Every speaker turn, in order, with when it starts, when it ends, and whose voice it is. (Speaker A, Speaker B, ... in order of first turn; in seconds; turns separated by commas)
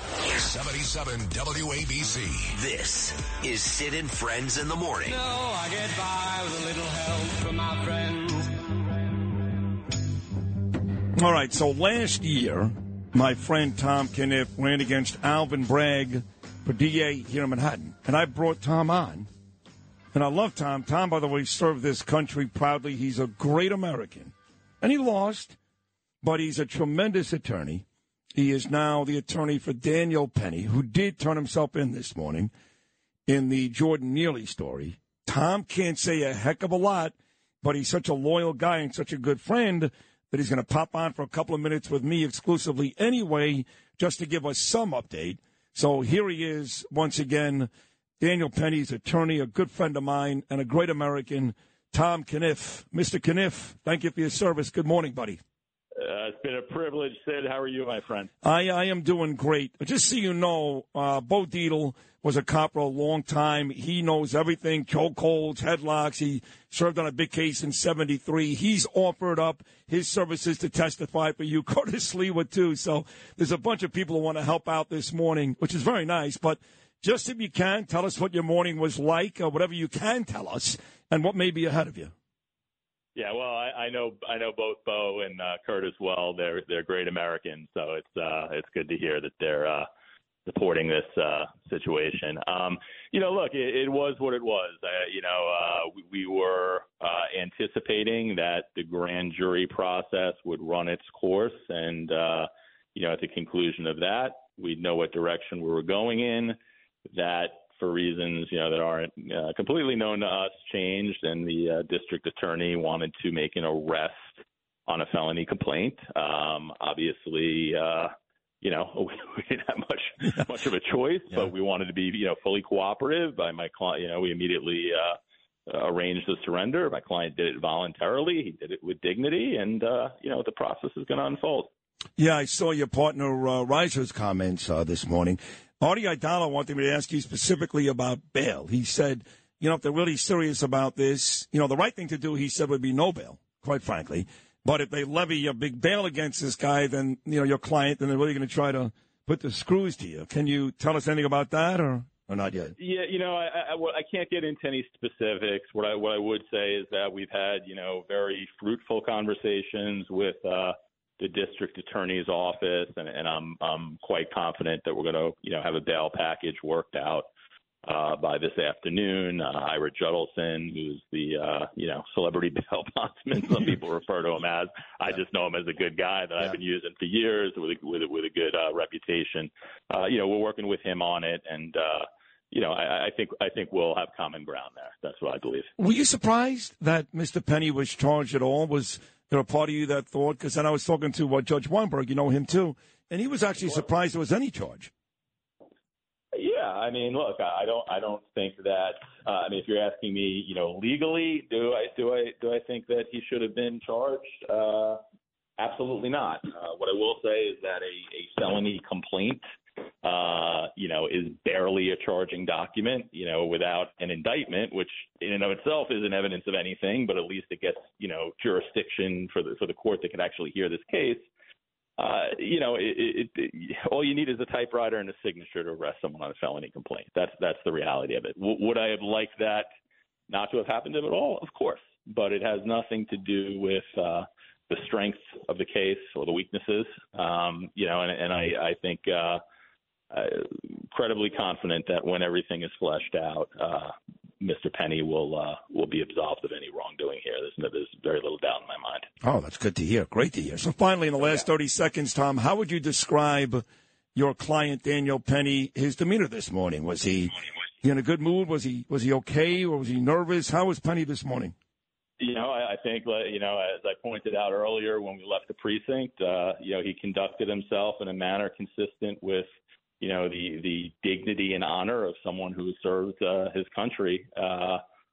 Speaker A: 0.3-2.7, Speaker B: 2.6-5.2, Speaker C: 5.1-8.7, Speaker D: 11.2-19.3, Speaker D: 20.1-25.6, Speaker D: 26.2-32.5, Speaker D: 33.3-55.4, Speaker E: 56.0-58.3, Speaker D: 58.4-82.1, Speaker E: 83.2-89.8, Speaker E: 90.5-106.6, Speaker E: 107.1-114.2, Speaker E: 114.9-118.1, Speaker E: 118.6-125.2, Speaker E: 125.7-131.7, Speaker D: 132.2-152.7, Speaker E: 152.8-167.3, Speaker E: 167.9-185.7, Speaker D: 185.8-194.9, Speaker E: 196.3-205.0, Speaker E: 205.6-209.4, Speaker E: 210.0-221.3, Speaker E: 222.0-229.7, Speaker E: 230.3-239.4, Speaker E: 240.1-249.1, Speaker D: 249.2-253.6, Speaker D: 254.2-261.6, Speaker E: 262.2-269.5, Speaker E: 270.0-274.8